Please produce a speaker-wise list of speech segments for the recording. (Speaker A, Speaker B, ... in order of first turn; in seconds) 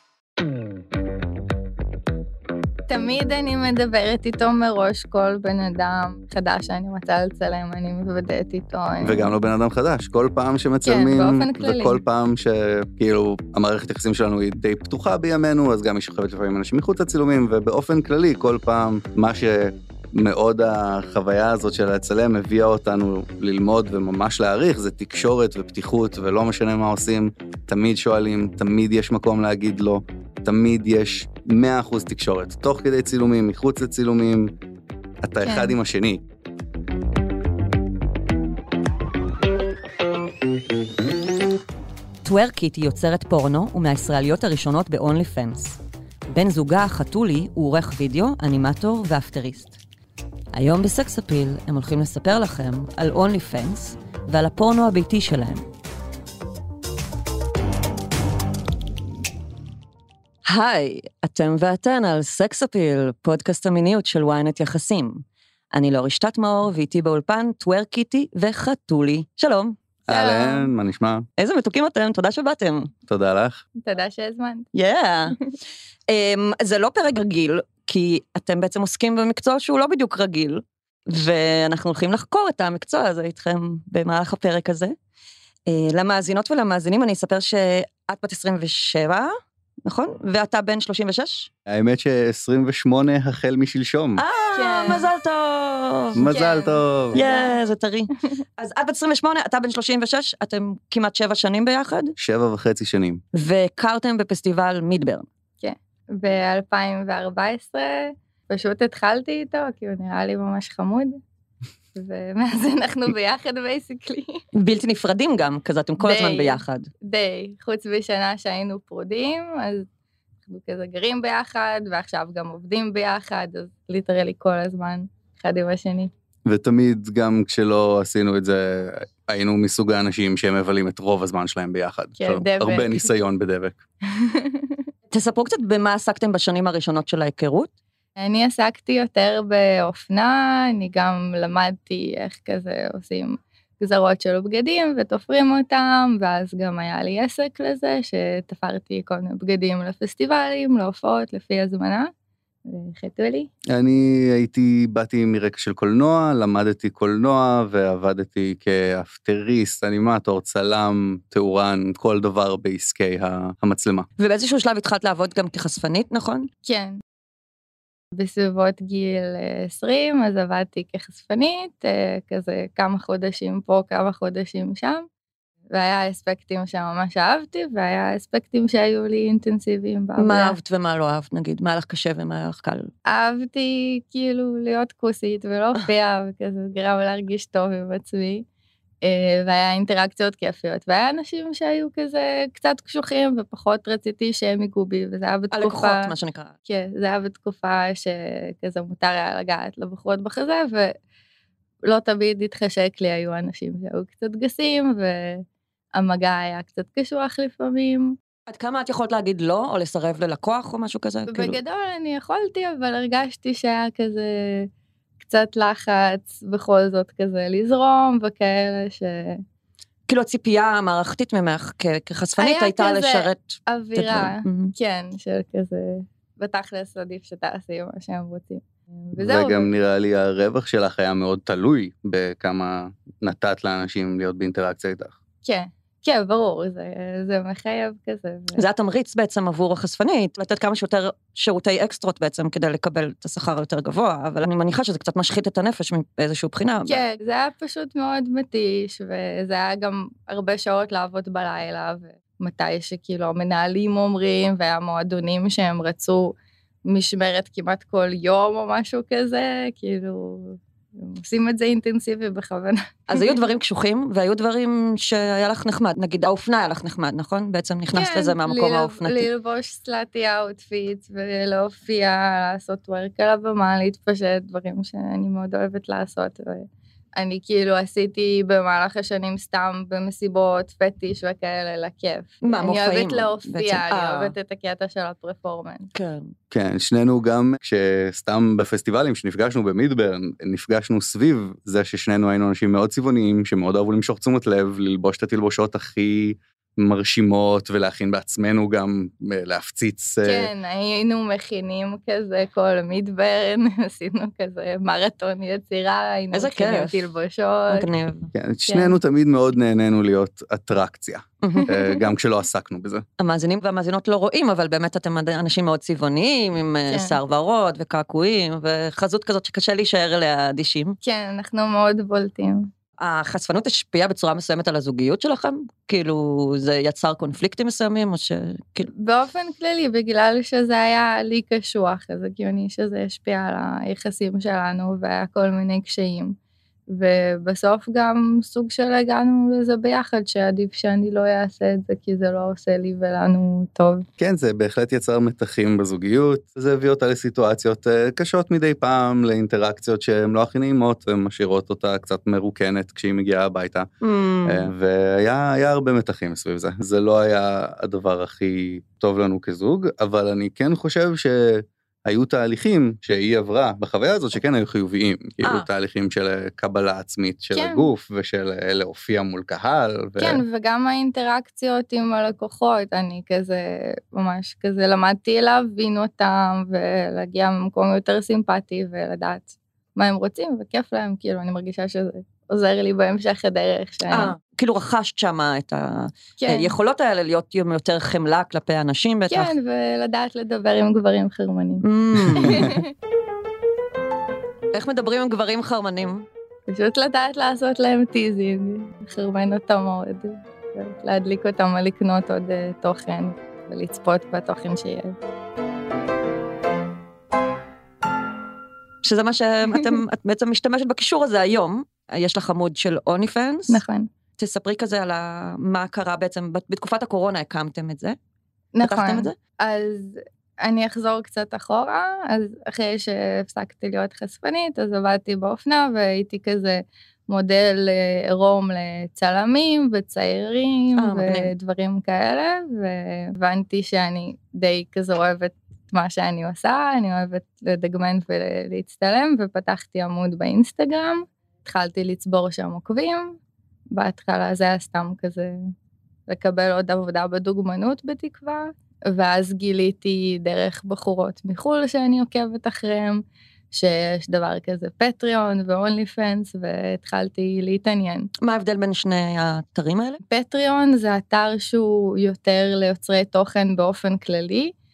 Speaker A: 2.9-9.3, 10.8-12.0, 35.4-35.8, 70.1-70.7, 73.8-74.7, 94.5-95.1, 96.2-97.5, 105.6-111.2, 111.9-114.4, 116.0-119.9, 120.5-126.1, 132.2-133.1, 134.1-134.8, 138.2-152.1, 152.7-153.5, 166.6-167.0, 168.1-175.1, 175.7-180.5, 183.1-188.4, 189.0-196.1, 196.7-200.9, 201.8-205.4, 205.9-208.1, 211.3-214.7, 215.2-219.4, 222.4-229.7, 235.4-238.6, 246.8-256.4, 256.9-263.3, 267.9-285.9, 300.2-307.9, 308.7-309.0, 311.6-312.0, 316.9-317.1, 321.0-322.7, 329.0-336.4, 336.9-344.1, 367.5-367.9, 370.2-384.3, 386.4-386.7, 389.3-391.8, 392.3-392.9, 396.7-405.1, 413.7-414.1, 418.7-443.4, 443.9-445.6, 446.3-458.3, 460.3-464.7
Speaker B: 9.0-34.5, 35.2-36.2, 70.0-71.3, 73.1-73.6, 91.7-94.2, 96.1-97.2, 102.2-103.2, 126.5-133.8, 153.7-164.1, 229.2-235.1, 286.5-300.5, 308.3-313.0, 344.2-353.9, 354.4-370.4, 392.4-392.7
Speaker C: 42.2-45.8, 46.3-49.8, 50.5-55.6, 60.5-69.8, 71.4-72.9, 74.7-75.4, 76.1-84.9, 85.7-89.3, 89.8-91.5, 94.2-96.2, 97.1-102.1, 103.3-105.2, 114.5-116.9, 135.1-137.7, 164.2-166.5, 180.2-182.9, 195.5-196.5, 208.5-211.6, 220.1-224.7, 238.6-247.0, 263.1-269.3, 282.4-284.3, 285.9-286.3, 306.3-307.1, 307.7-308.3, 311.4-311.7, 313.2-321.0, 323.0-328.9, 354.0-354.7, 365.4-365.7, 384.1-389.5, 391.8-392.7, 394.7-396.2, 409.0-413.8, 414.4-418.2, 418.8-419.3, 431.0-431.5, 458.4-460.2